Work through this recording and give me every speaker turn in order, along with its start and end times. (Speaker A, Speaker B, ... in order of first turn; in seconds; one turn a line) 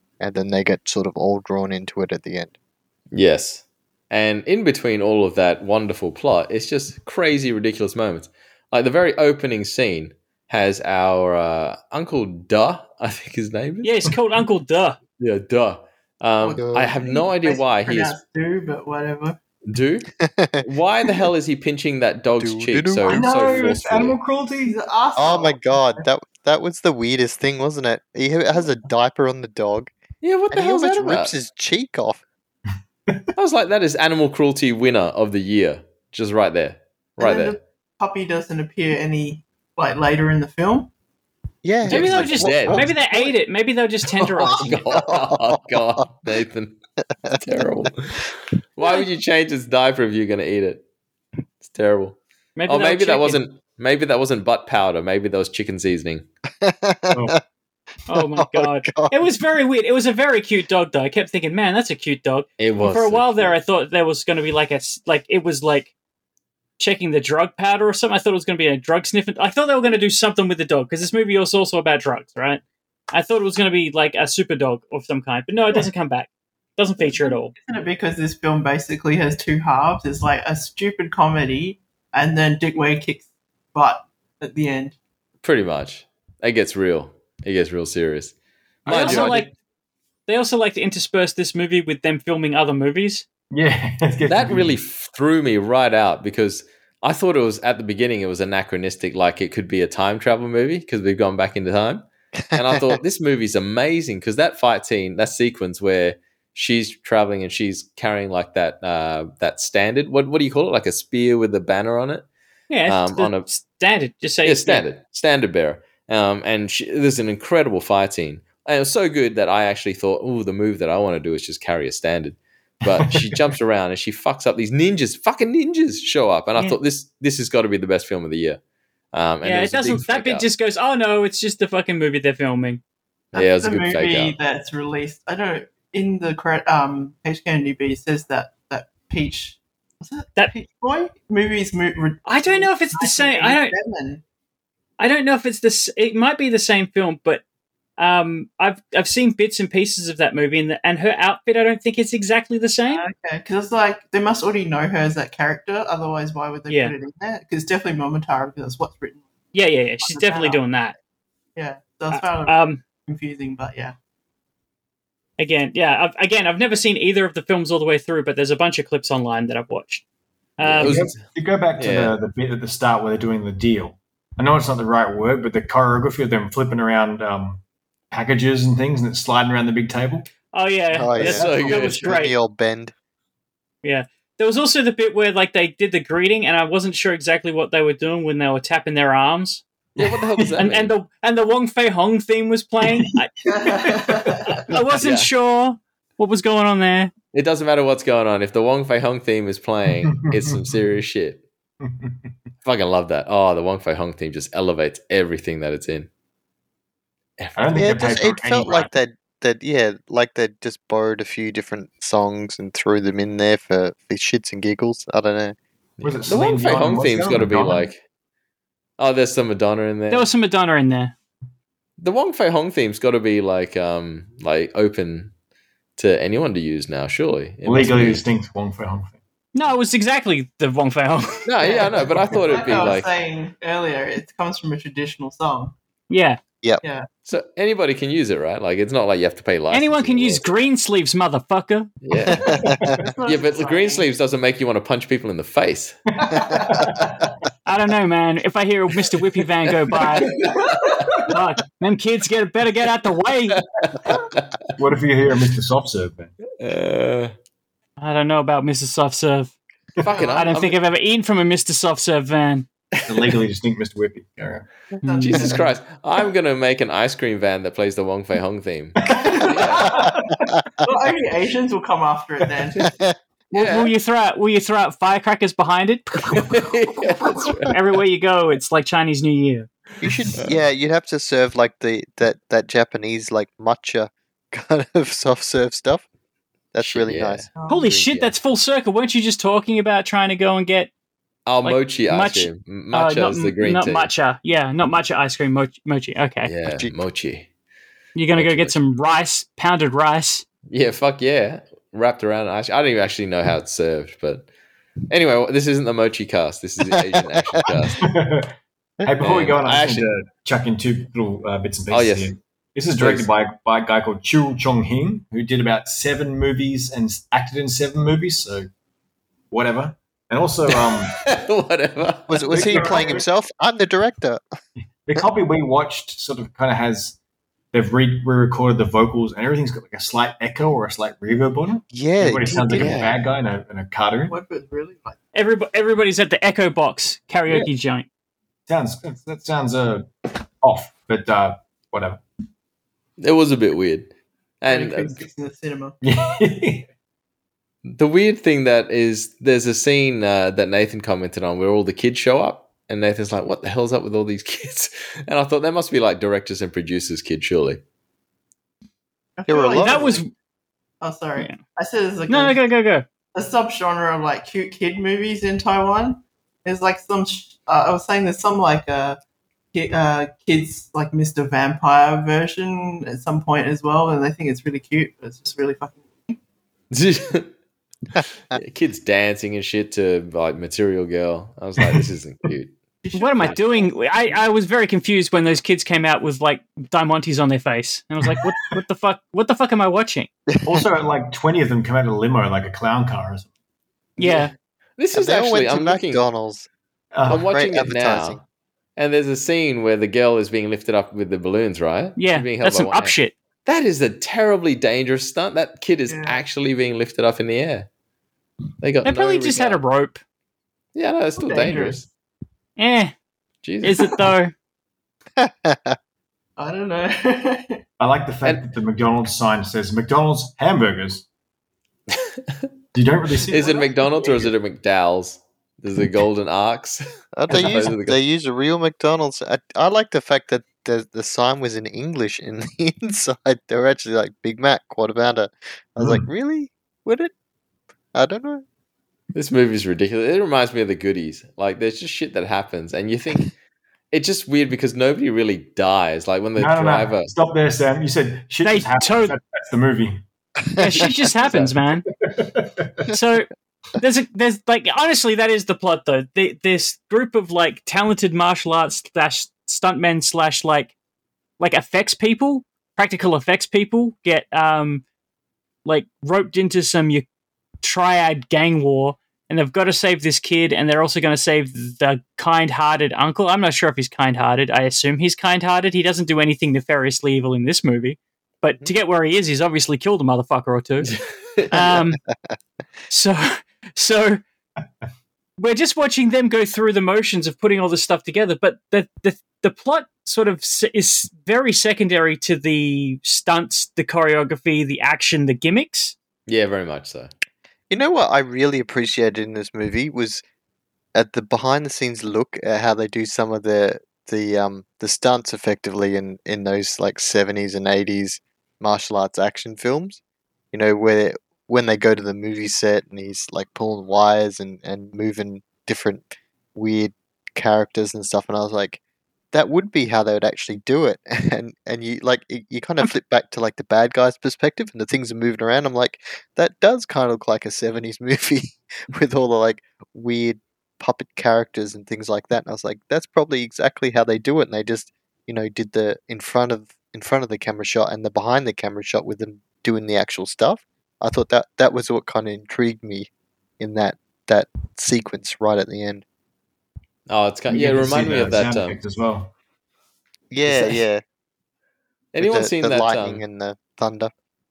Speaker A: 0.2-2.5
Speaker B: 3.1-13.9
Speaker C: 13.8-15.0
Speaker B: 15.2-18.2
Speaker D: 16.4-19.4
Speaker A: 16.6-16.9
Speaker B: 19.7-20.1
Speaker A: 20.2-20.6
Speaker B: 20.6-24.2
Speaker A: 22.4-23.2
Speaker E: 23.0-24.8
Speaker D: 24.6-26.0
Speaker A: 25.1-29.9
Speaker B: 30.2-31.3
Speaker A: 30.5-32.2
Speaker B: 33.4-37.6
Speaker D: 37.2-40.9
Speaker A: 41.6-43.3
Speaker B: 41.8-42.9
Speaker C: 41.9-44.7
Speaker B: 44.4-46.8
Speaker A: 44.9-46.0
Speaker A: 47.3-47.9
Speaker B: 47.3-50.8
Speaker B: 51.6-56.2
Speaker C: 52.5-53.4
Speaker A: 56.6-57.4
Speaker E: 57.1-57.4
Speaker C: 58.1-65.9
Speaker A: 58.3-59.3
Speaker B: 62.6-63.5
Speaker C: 66.8-77.5
Speaker D: 77.0-85.0
Speaker B: 85.4-88.3
Speaker B: 88.8-89.4
Speaker C: 88.9-89.5
Speaker E: 88.9-89.4
Speaker C: 90.3-93.2
Speaker E: 93.5-94.8
Speaker B: 94.2-112.3
Speaker A: 102.5-103.0
Speaker C: 112.7-114.8
Speaker B: 112.9-113.5
Speaker B: 114.4-128.6
Speaker E: 122.8-123.4
Speaker B: 129.1-130.4
Speaker C: 129.4-132.8
Speaker D: 133.3-144.2
Speaker B: 133.3-134.3
Speaker C: 142.2-143.7
Speaker C: 145.0-147.4
Speaker C: 148.0-153.0
Speaker D: 152.9-159.2
Speaker C: 156.7-156.9
Speaker C: 159.5-160.9
Speaker D: 160.0-160.6
Speaker D: 161.6-163.9
Speaker C: 162.1-162.8
Speaker C: 165.4-170.0
Speaker C: 170.6-171.0
Speaker E: 170.6-180.3
Speaker B: 170.8-171.2
Speaker B: 171.8-172.2
Speaker C: 180.5-182.3
Speaker A: 180.9-182.9
Speaker B: 181.2-182.1
Speaker C: 183.8-189.6
Speaker E: 189.9-190.7
Speaker B: 190.0-190.9
Speaker C: 190.6-193.3
Speaker E: 192.8-194.5
Speaker D: 193.5-194.6
Speaker C: 194.7-197.1
Speaker B: 195.0-195.3
Speaker B: 197.3-201.4
Speaker E: 200.0-200.6
Speaker E: 201.8-202.3
Speaker B: 202.6-206.1
Speaker B: 207.4-207.8
Speaker E: 207.6-208.9
Speaker A: 207.7-215.6
Speaker B: 216.0-218.0
Speaker E: 216.0-217.9
Speaker B: 219.0-220.3
Speaker C: 220.1-221.1
Speaker B: 222.0-225.3
Speaker B: 226.0-228.2
Speaker E: 227.6-229.2
Speaker C: 229.5-231.5
Speaker B: 231.4-233.1
Speaker D: 231.6-235.7
Speaker C: 236.1-236.4
Speaker D: 236.8-237.1
Speaker B: 237.2-240.4
Speaker C: 239.7-241.9
Speaker B: 242.0-242.6
Speaker D: 242.4-244.1
Speaker E: 242.4-243.0
Speaker B: 243.2-246.0
Speaker E: 246.1-247.3
Speaker C: 247.7-250.3
Speaker D: 250.6-251.2
Speaker C: 251.3-253.6
Speaker B: 253.6-254.4
Speaker E: 254.8-256.3
Speaker B: 256.6-257.3
Speaker C: 258.0-259.5
Speaker B: 260.0-260.8
Speaker D: 260.1-260.4
Speaker C: 260.2-262.7
Speaker E: 263.1-264.7
Speaker C: 265.0-265.5
Speaker D: 265.0-265.7
Speaker B: 265.2-269.9
Speaker E: 269.0-270.5
Speaker D: 269.1-270.1
Speaker D: 270.8-272.9
Speaker A: 272.8-273.1
Speaker C: 273.5-276.5
Speaker B: 273.5-273.9
Speaker B: 276.4-277.7
Speaker C: 277.7-279.7
Speaker A: 280.0-286.0
Speaker A: 286.7-288.1
Speaker B: 286.8-287.5
Speaker D: 287.6-287.9
Speaker C: 287.7-290.9
Speaker B: 291.4-294.1
Speaker C: 291.6-296.5
Speaker B: 296.4-297.5
Speaker C: 298.1-300.4
Speaker B: 298.3-298.8
Speaker B: 300.7-304.5
Speaker B: 305.1-308.1
Speaker E: 308.0-318.7
Speaker B: 309.2-310.1
Speaker B: 311.9-312.3
Speaker B: 313.0-313.3
Speaker E: 319.5-321.2
Speaker B: 320.7-322.9
Speaker A: 322.3-324.4
Speaker E: 322.5-323.2
Speaker E: 325.0-327.2
Speaker E: 327.7-334.4
Speaker A: 331.9-333.1
Speaker B: 332.7-333.1
Speaker D: 334.3-335.2
Speaker C: 335.3-338.1
Speaker E: 338.7-342.2
Speaker B: 343.2-345.2
Speaker D: 344.7-346.0
Speaker E: 346.0-346.9
Speaker B: 347.8-357.8
Speaker D: 359.4-360.2
Speaker A: 359.5-360.2
Speaker C: 359.8-360.3
Speaker D: 361.0-362.6
Speaker C: 362.3-363.0
Speaker D: 363.3-369.2
Speaker D: 369.7-376.4
Speaker B: 376.9-377.5
Speaker B: 378.5-382.7
Speaker D: 383.0-383.9
Speaker C: 383.1-390.3
Speaker E: 390.6-393.5
Speaker A: 394.2-394.4
Speaker C: 394.2-394.5
Speaker B: 395.0-396.2
Speaker A: 395.1-396.7
Speaker E: 397.1-397.4
Speaker B: 397.3-398.4
Speaker A: 397.3-398.4
Speaker B: 399.0-407.9
Speaker C: 402.2-403.3
Speaker D: 406.1-406.4
Speaker B: 408.8-409.8
Speaker C: 409.0-410.2
Speaker B: 410.9-412.1
Speaker D: 411.4-412.0
Speaker C: 412.8-413.1
Speaker B: 413.6-414.3
Speaker C: 413.8-414.5
Speaker A: 415.4-416.0
Speaker D: 416.6-417.8
Speaker E: 418.0-421.2
Speaker B: 422.1-422.6
Speaker E: 422.9-424.4
Speaker B: 423.5-428.1
Speaker A: 427.3-437.3
Speaker E: 436.0-436.3
Speaker A: 438.1-438.6
Speaker B: 439.3-443.5
Speaker B: 444.1-447.3
Speaker E: 446.6-450.2
Speaker C: 448.6-449.3
Speaker C: 450.8-452.1
Speaker E: 452.2-453.1
Speaker C: 453.1-453.5
Speaker C: 454.0-460.9
Speaker C: 461.6-465.0
Speaker C: 465.8-467.2
Speaker C: 467.8-481.1
Speaker B: 481.1-481.7
Speaker C: 481.7-482.2
Speaker C: 483.1-484.4
Speaker C: 485.6-496.1
Speaker B: 496.5-497.3
Speaker A: 497.9-500.4
Speaker A: 501.1-510.2
Speaker A: 510.7-519.0
Speaker A: 519.5-546.2
Speaker B: 547.3-549.0
Speaker E: 547.7-549.5
Speaker A: 550.5-551.2
Speaker B: 552.3-553.4
Speaker A: 552.4-554.3